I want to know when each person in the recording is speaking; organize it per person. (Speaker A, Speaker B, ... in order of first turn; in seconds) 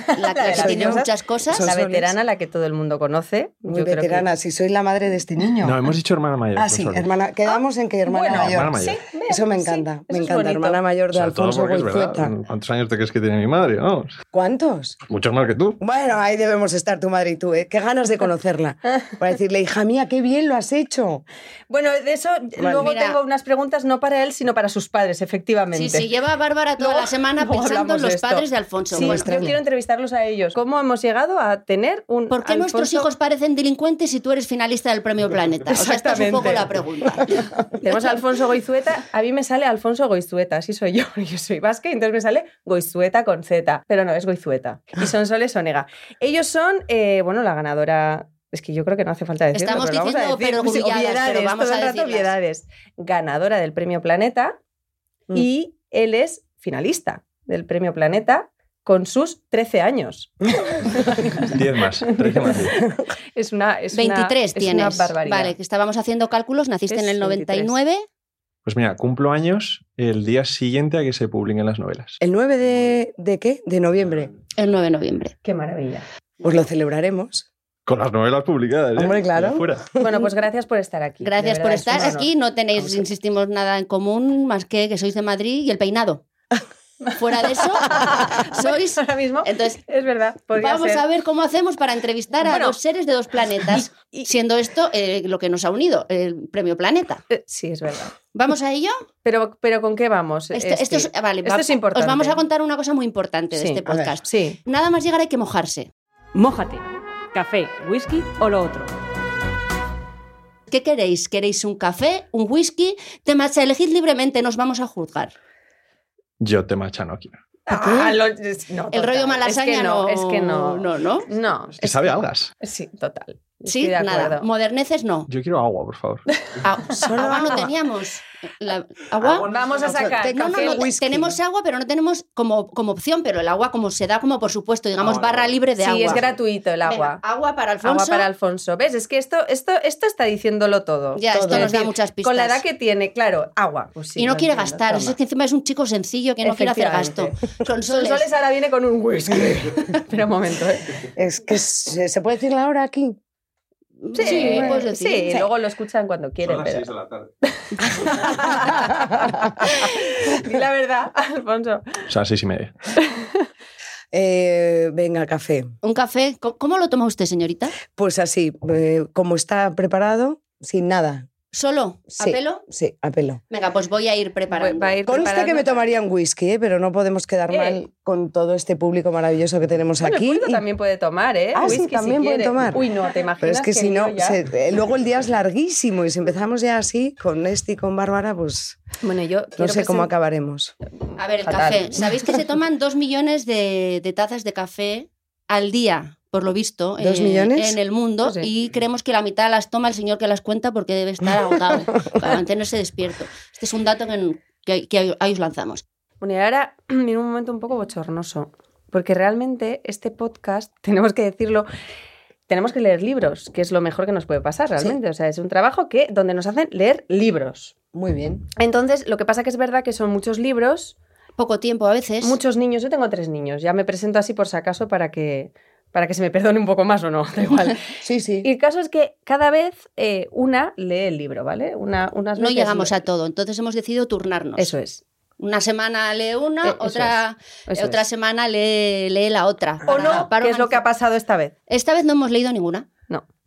Speaker A: 0.1-1.1, 1.6-4.2, 7.5-10.8, 21.7-26.1, 26.8-33.1, 35.7-36.7, 37.8-54.6, 55.3-61.5, 62.2-62.6, 63.3-65.5, 66.9-67.8, 75.4-76.0, 80.0-82.3, 87.5-91.0, 92.4-92.8, 93.7-94.3, 97.3-98.1, 99.2-102.4, 103.5-104.6, 117.7-124.4, 129.3-130.8, 135.8-137.2, 137.8-145.2, 146.4-150.9, 154.1-156.9, 157.5-162.0, 174.5-175.8, 177.5-177.8, 180.0-184.4, 189.0-190.1, 191.4-192.2, 198.2-198.5, 206.2-211.7, 212.5-217.7, 218.6-220.9, 222.2-233.0, 234.6-235.0, 236.6-238.0, 239.8-241.5
Speaker B: 0.1-1.7, 22.8-23.2, 25.7-29.3, 32.3-37.5, 49.5-52.3, 63.9-68.0, 74.6-75.3, 81.2-86.2, 87.2-89.8, 90.5-97.2, 98.3-99.0, 100.5-105.9, 110.7-115.3, 118.9-121.3, 123.7-125.3, 126.6-129.5, 130.3-136.2, 136.8-138.3, 141.1-142.6, 144.2-148.3, 154.0-155.4, 165.8-167.7, 171.5-172.6, 173.5-175.2, 191.2-205.8, 221.4-222.4, 232.4-234.7, 235.4-240.8, 241.7-242.9
Speaker C: 0.4-2.1, 3.6-5.8, 6.5-8.8, 9.3-12.3, 14.3-15.0, 15.8-21.2, 28.9-29.6, 62.7-63.0, 72.2-74.3, 76.4-77.5, 79.0-80.3, 103.8-104.1, 117.7-118.2, 127.0-127.7, 129.8-131.4, 141.3-141.7, 151.1-153.2, 154.2-155.4, 164.1-165.7, 167.9-171.3, 172.2-173.4, 175.1-180.6, 181.5-188.8, 189.6-190.7, 197.0-197.8, 217.9-218.5, 228.0-228.5
Speaker D: 5.6-7.1, 8.3-9.0, 11.1-14.2, 15.1-15.8, 61.5-62.8, 68.6-72.2, 77.8-79.8, 116.4-117.4, 121.8-122.5, 125.3-126.2, 129.7-129.9, 135.0-135.5, 136.1-136.3, 156.4-157.3, 162.1-162.7
Speaker E: 106.3-108.9